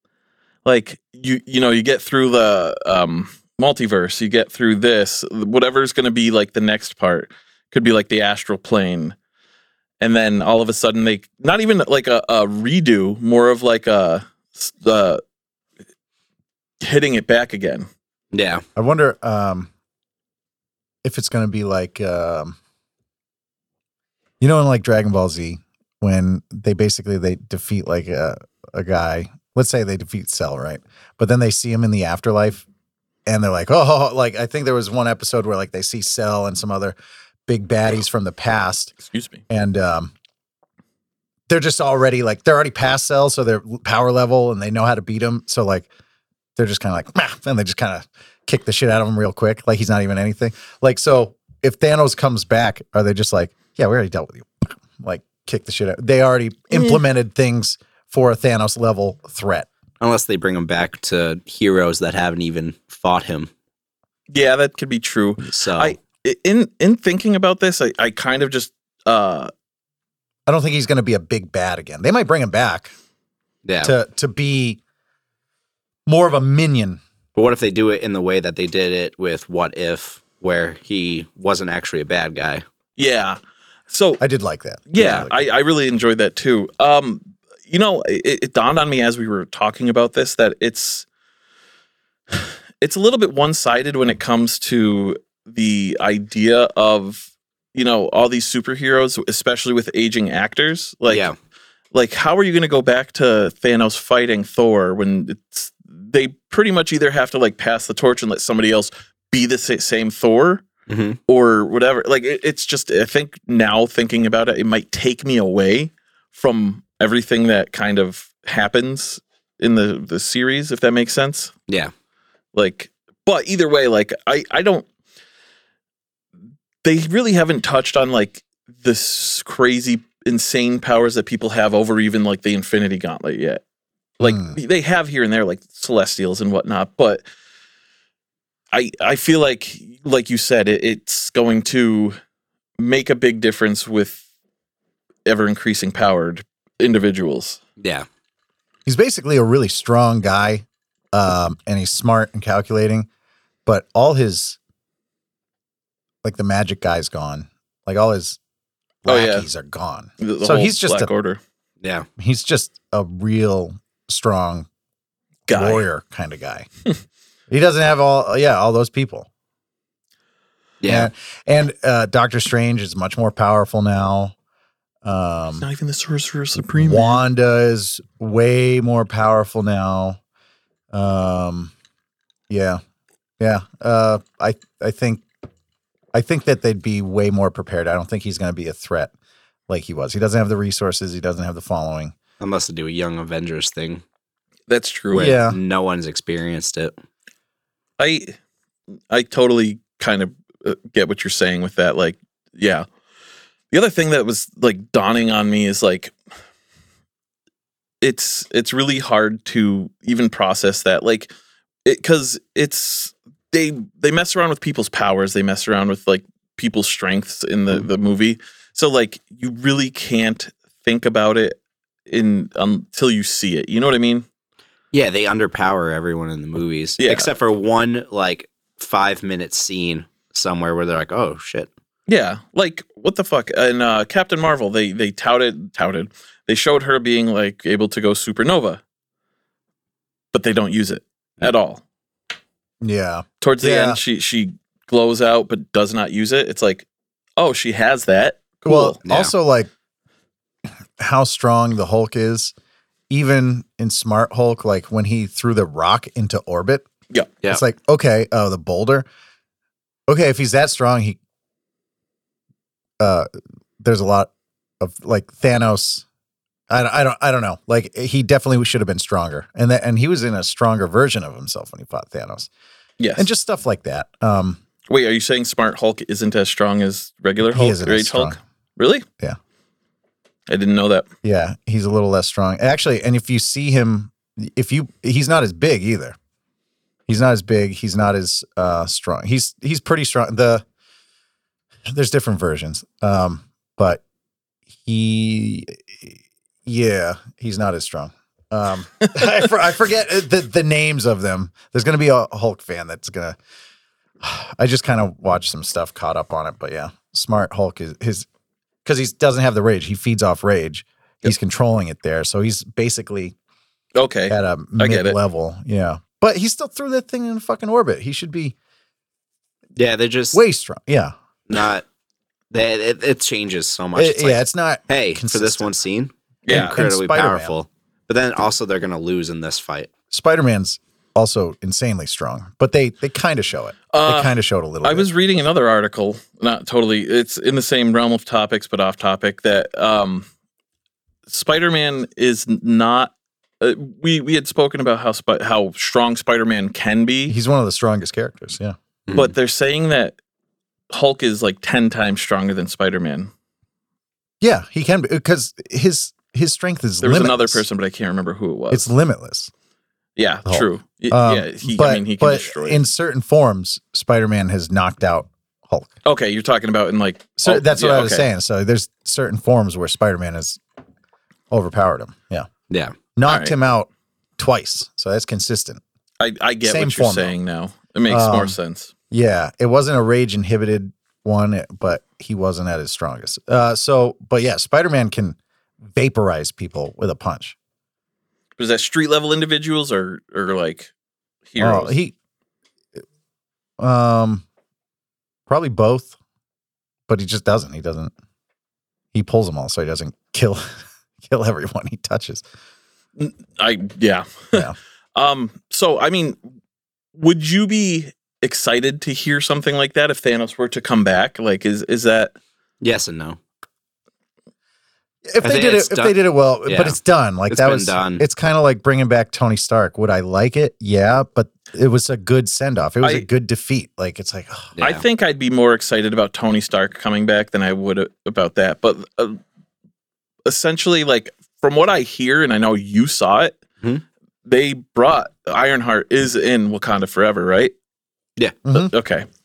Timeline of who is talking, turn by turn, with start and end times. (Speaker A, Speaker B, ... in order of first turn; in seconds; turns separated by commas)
Speaker A: 0.6-9.1, Speaker A: 10.0-15.2, Speaker A: 16.8-17.9, Speaker B: 18.3-18.6, Speaker C: 18.8-19.7, Speaker C: 21.0-22.6, Speaker C: 24.4-32.6, Speaker C: 33.2-37.0, Speaker C: 37.5-38.9, Speaker A: 39.0-39.4, Speaker C: 39.5-40.1, Speaker C: 41.5-45.9, Speaker C: 46.5-59.7, Speaker A: 56.7-57.0, Speaker B: 60.0-63.5, Speaker A: 64.3-69.5, Speaker B: 65.4-66.0, Speaker C: 70.5-72.9, Speaker B: 73.6-73.9, Speaker C: 73.8-74.8, Speaker C: 76.0-77.0, Speaker B: 77.3-82.6, Speaker A: 83.0-83.4, Speaker A: 83.9-84.2, Speaker C: 84.2-85.3, Speaker A: 84.9-91.0, Speaker B: 85.0-85.3, Speaker A: 92.3-101.3, Speaker B: 101.1-101.3, Speaker A: 101.9-110.6, Speaker B: 110.9-111.2, Speaker A: 111.3-121.5, Speaker A: 122.5-124.8, Speaker A: 126.8-133.6, Speaker A: 134.2-137.2, Speaker C: 134.2-134.6, Speaker A: 138.7-142.2, Speaker A: 142.8-144.2, Speaker A: 145.2-147.6, Speaker B: 147.8-148.1, Speaker C: 148.8-153.1, Speaker C: 153.7-154.6, Speaker C: 156.2-158.4, Speaker C: 159.0-161.1, Speaker A: 159.1-159.5, Speaker A: 160.2-161.4, Speaker B: 161.8-162.1, Speaker C: 162.2-164.7, Speaker A: 165.5-165.8, Speaker C: 165.5-166.7, Speaker C: 167.5-169.3, Speaker B: 170.8-171.1, Speaker C: 170.9-174.3, Speaker C: 175.0-175.7, Speaker A: 175.6-177.2, Speaker C: 176.8-180.2, Speaker C: 180.9-181.7, Speaker C: 182.5-182.8, Speaker C: 183.4-185.2, Speaker C: 186.1-189.1, Speaker C: 189.7-192.1, Speaker B: 192.4-194.0, Speaker A: 194.7-195.4, Speaker B: 195.1-196.9, Speaker C: 195.1-195.6, Speaker A: 198.0-198.3, Speaker A: 199.1-202.8, Speaker A: 203.7-206.1, Speaker A: 208.0-211.3, Speaker A: 211.8-224.2, Speaker B: 224.9-231.7, Speaker A: 227.0-227.3, Speaker A: 232.1-238.8, Speaker A: 240.3-241.8, Speaker C: 242.8-244.0, Speaker A: 243.4-246.8, Speaker A: 247.4-249.0, Speaker C: 248.7-249.7, Speaker B: 249.0-249.3, Speaker C: 251.0-252.5, Speaker C: 253.1-256.9, Speaker C: 257.5-259.1, Speaker C: 260.1-261.2, Speaker C: 263.0-263.3, Speaker C: 263.8-266.0, Speaker C: 266.7-272.5, Speaker A: 273.0-273.3, Speaker C: 273.2-274.6, Speaker A: 274.9-279.1, Speaker C: 277.4-278.4, Speaker A: 280.5-281.1, Speaker C: 281.2-286.2, Speaker C: 287.1-290.6, Speaker C: 291.9-294.0, Speaker C: 294.7-303.4, Speaker C: 304.2-308.3, Speaker C: 308.8-313.3, Speaker A: 313.9-315.1, Speaker C: 314.3-318.5, Speaker B: 319.8-320.4, Speaker C: 320.3-321.1, Speaker B: 321.5-321.8, Speaker B: 322.5-329.9, Speaker C: 323.9-325.7, Speaker A: 326.4-326.8, Speaker C: 326.5-327.5, Speaker C: 330.1-335.1, Speaker A: 333.9-340.2, Speaker A: 341.3-347.3, Speaker C: 347.3-348.8, Speaker A: 349.1-350.1, Speaker A: 350.9-353.3, Speaker C: 354.4-357.6, Speaker A: 357.0-358.9, Speaker C: 358.7-359.5, Speaker A: 360.2-362.8, Speaker C: 360.4-365.9, Speaker A: 366.0-368.3, Speaker C: 367.4-370.6, Speaker C: 371.5-372.5, Speaker B: 372.7-372.9, Speaker C: 373.1-375.8, Speaker A: 373.3-373.6, Speaker A: 376.2-378.9, Speaker C: 376.6-377.3, Speaker C: 378.1-378.6, Speaker C: 379.1-385.4, Speaker C: 385.9-387.6, Speaker A: 388.6-390.9, Speaker A: 391.5-391.9, Speaker C: 391.6-392.1, Speaker C: 393.8-394.4, Speaker C: 395.5-396.1, Speaker C: 397.1-398.1, Speaker C: 399.1-400.7, Speaker C: 401.2-402.4, Speaker A: 403.2-406.4, Speaker A: 407.1-412.3, Speaker B: 412.8-413.4, Speaker C: 415.2-424.8, Speaker B: 415.4-418.2, Speaker B: 424.8-425.0, Speaker A: 424.8-429.4, Speaker A: 430.4-433.6, Speaker A: 434.4-437.7, Speaker C: 438.6-438.9, Speaker A: 438.7-439.2